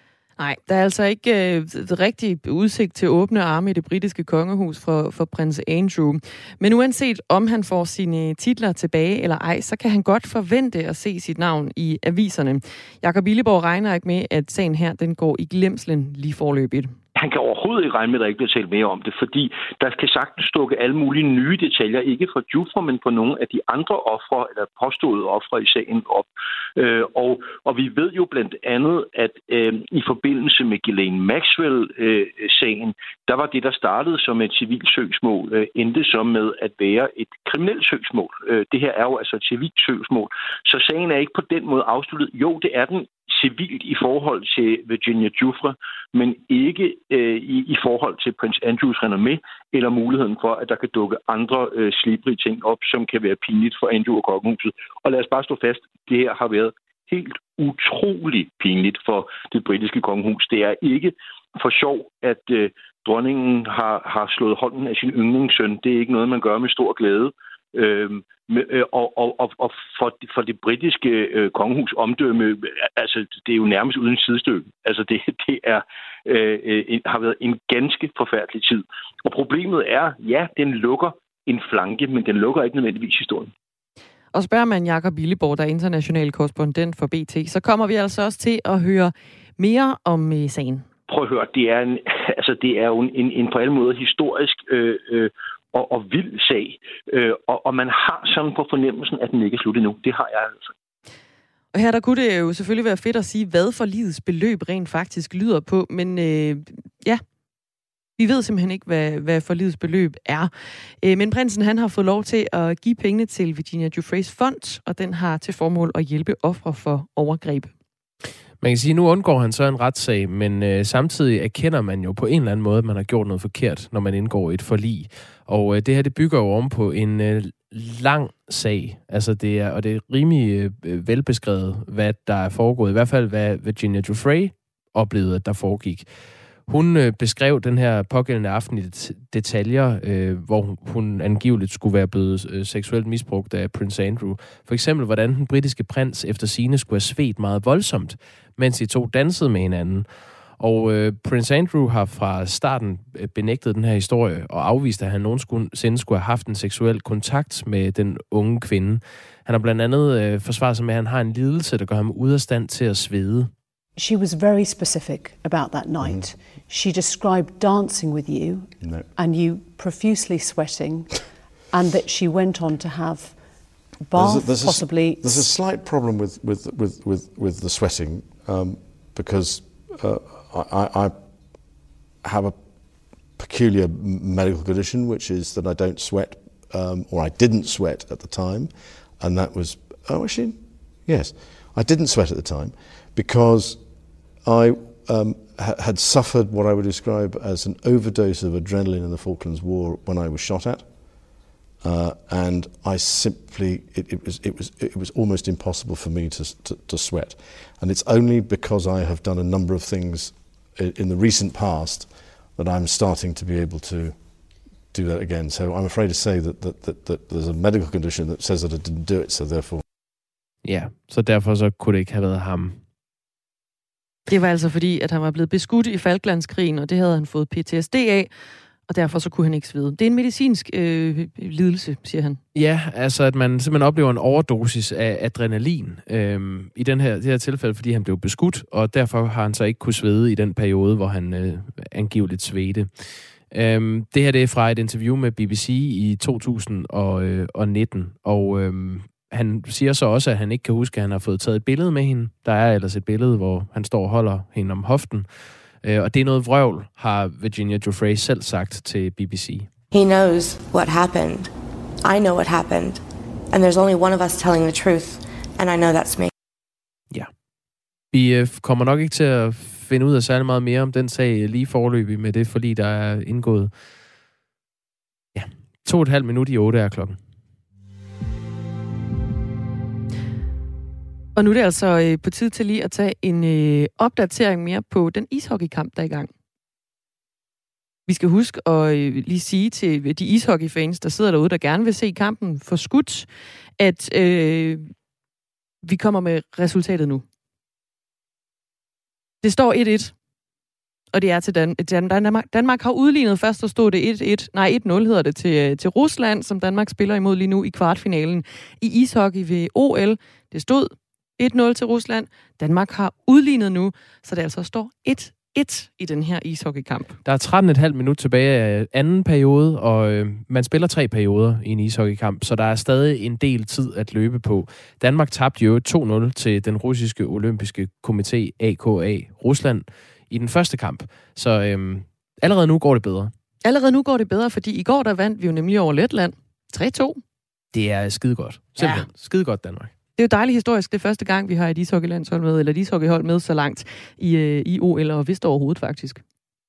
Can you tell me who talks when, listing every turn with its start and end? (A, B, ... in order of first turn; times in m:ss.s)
0:00.4-0:17.0 A
0:17.2-1:23.5 B
1:24.3-1:30.9 A
1:31.1-1:40.7 B
1:41.7-1:47.2 A
1:48.2-1:57.7 A
1:58.6-2:16.1 C
2:16.7-2:43.5 C
2:44.0-2:55.6 D
2:46.0-2:46.4 E
2:48.8-2:49.1 E
2:54.1-3:21.2 E
3:21.8-3:39.8 E
3:40.6-3:42.8 C
3:44.3-3:48.3 A
3:48.9-3:52.4 A
3:52.5-4:19.7 C
4:19.9-4:21.5 F
4:22.0-4:26.3 F
4:28.1-4:33.7 C
4:35.4-4:37.2 C
4:41.4-4:46.3 A
4:48.1-4:54.9 A
4:55.8-4:57.2 A
4:59.4-5:00.2 A
5:01.1-5:17.2 A
5:17.2-5:33.3 C
5:33.6-5:37.2 A
5:37.7-5:39.9 C
5:38.8-5:39.1 A
5:40.2-5:46.2 A